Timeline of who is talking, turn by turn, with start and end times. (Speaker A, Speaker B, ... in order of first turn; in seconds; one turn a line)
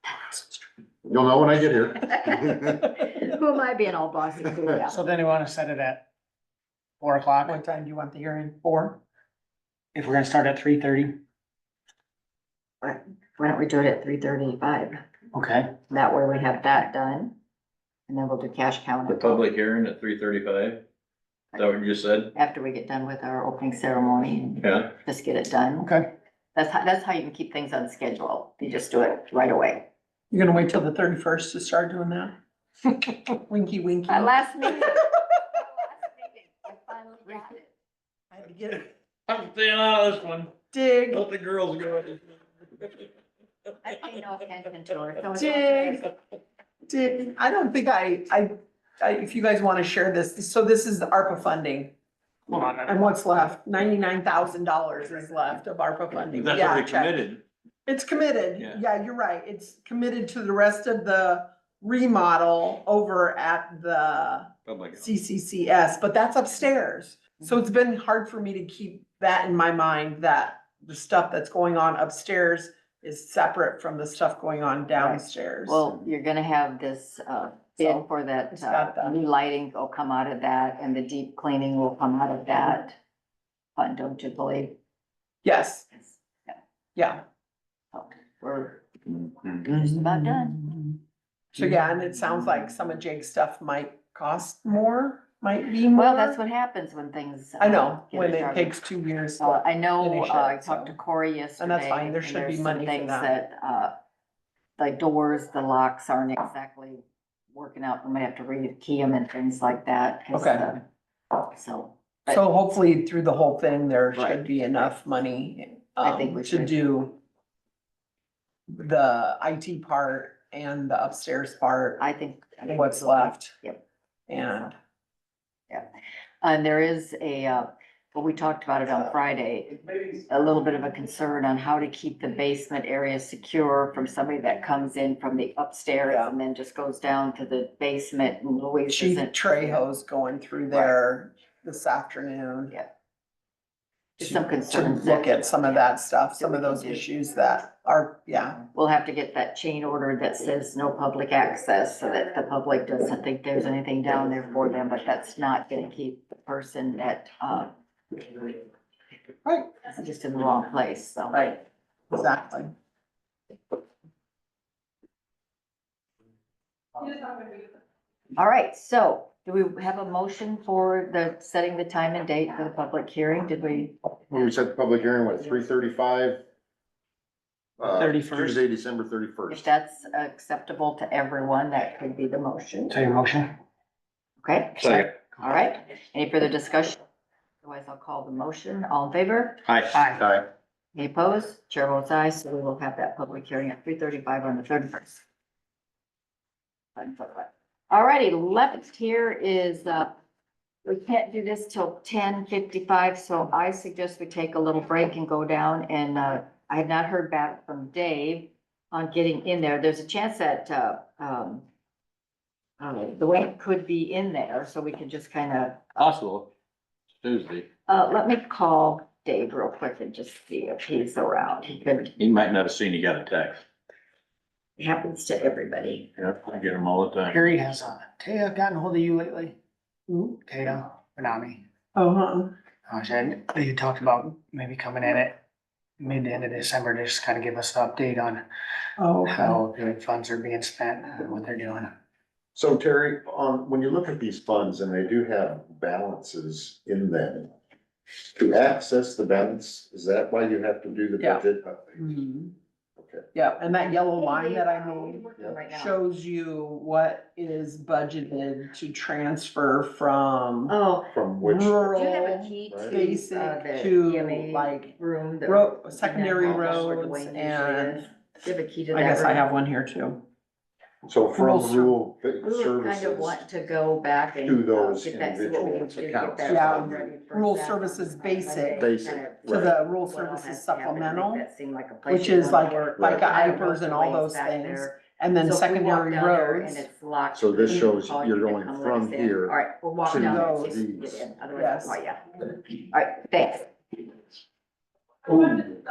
Speaker A: 1.0-2.8
Speaker B: 2.1-5.0
Speaker C: 4.9-6.0
Speaker C: 7.0-7.6
Speaker D: 7.5-9.0
Speaker C: 9.9-11.2
Speaker B: 12.8-15.0
Speaker C: 15.3-15.7
Speaker B: 15.9-17.3
Speaker B: 18.1-19.4
Speaker E: 19.1-20.8
Speaker E: 21.5-22.3
Speaker B: 22.3-26.0
Speaker E: 24.6-24.9
Speaker B: 26.5-29.9
Speaker D: 30.3-32.4
Speaker D: 33.1-35.1
Speaker B: 34.1-37.7
Speaker D: 38.3-38.9
Speaker E: 39.3-40.5
Speaker D: 40.7-41.3
Speaker E: 41.1-43.0
Speaker B: 43.8-46.0
Speaker D: 45.3-46.1
Speaker D: 46.9-51.9
Speaker D: 52.5-57.2
Speaker E: 56.2-57.4
Speaker D: 57.9-75.9
Speaker E: 64.7-65.1
Speaker B: 75.0-83.0
Speaker D: 77.8-79.2
Speaker B: 83.8-84.8
Speaker D: 85.4-85.9
Speaker B: 85.9-86.6
Speaker D: 87.0-87.2
Speaker B: 87.9-88.8
Speaker B: 89.6-90.7
Speaker D: 91.5-96.4
Speaker B: 96.0-98.7
Speaker D: 97.6-101.0
Speaker B: 99.4-104.0
Speaker D: 101.6-103.3
Speaker B: 104.8-110.8
Speaker D: 110.3-110.7
Speaker B: 111.4-112.4
Speaker D: 112.3-117.2
Speaker B: 114.2-114.4
Speaker B: 116.0-116.8
Speaker D: 118.7-122.0
Speaker B: 122.0-123.8
Speaker D: 122.7-123.5
Speaker D: 124.3-124.8
Speaker B: 126.4-139.8
Speaker D: 136.1-136.4
Speaker D: 138.9-142.7
Speaker B: 144.2-145.8
Speaker D: 144.2-148.6
Speaker B: 146.4-147.1
Speaker B: 148.7-158.5
Speaker B: 159.8-161.5
Speaker D: 161.3-161.6
Speaker D: 162.1-162.7
Speaker B: 168.3-174.5
Speaker A: 174.3-176.4
Speaker A: 177.8-179.7
Speaker D: 177.9-178.6
Speaker B: 179.5-183.0
Speaker C: 182.9-183.6
Speaker B: 184.4-187.0
Speaker E: 184.8-185.1
Speaker B: 187.6-190.2
Speaker E: 189.7-190.4
Speaker B: 190.9-195.2
Speaker B: 197.0-200.1
Speaker B: 200.8-211.7
Speaker B: 212.8-216.1
Speaker E: 216.0-216.5
Speaker E: 217.2-217.7
Speaker B: 217.9-222.1
Speaker E: 222.2-223.6
Speaker B: 224.8-226.1
Speaker E: 226.2-227.4
Speaker C: 227.3-229.6
Speaker D: 230.1-230.4
Speaker C: 230.5-231.6
Speaker D: 231.9-232.5
Speaker C: 232.9-235.4
Speaker C: 236.0-238.4
Speaker D: 239.0-239.6
Speaker C: 239.2-241.9
Speaker A: 242.6-247.5
Speaker A: 248.3-252.0
Speaker D: 252.0-252.6
Speaker A: 253.0-253.3
Speaker D: 253.3-260.7
Speaker B: 254.2-256.0
Speaker B: 260.7-261.1
Speaker A: 261.1-263.0
Speaker D: 261.4-264.9
Speaker B: 261.9-269.5
Speaker D: 265.4-268.1
Speaker A: 266.4-266.9
Speaker D: 268.9-270.2
Speaker A: 271.1-273.4
Speaker D: 271.4-271.9
Speaker B: 272.4-292.2
Speaker A: 274.4-277.1
Speaker D: 276.5-278.9
Speaker A: 278.8-279.7
Speaker D: 279.5-281.4
Speaker D: 282.1-286.9
Speaker A: 283.0-283.3
Speaker A: 287.3-291.3
Speaker D: 290.1-290.8
Speaker D: 291.5-292.0
Speaker B: 292.9-293.7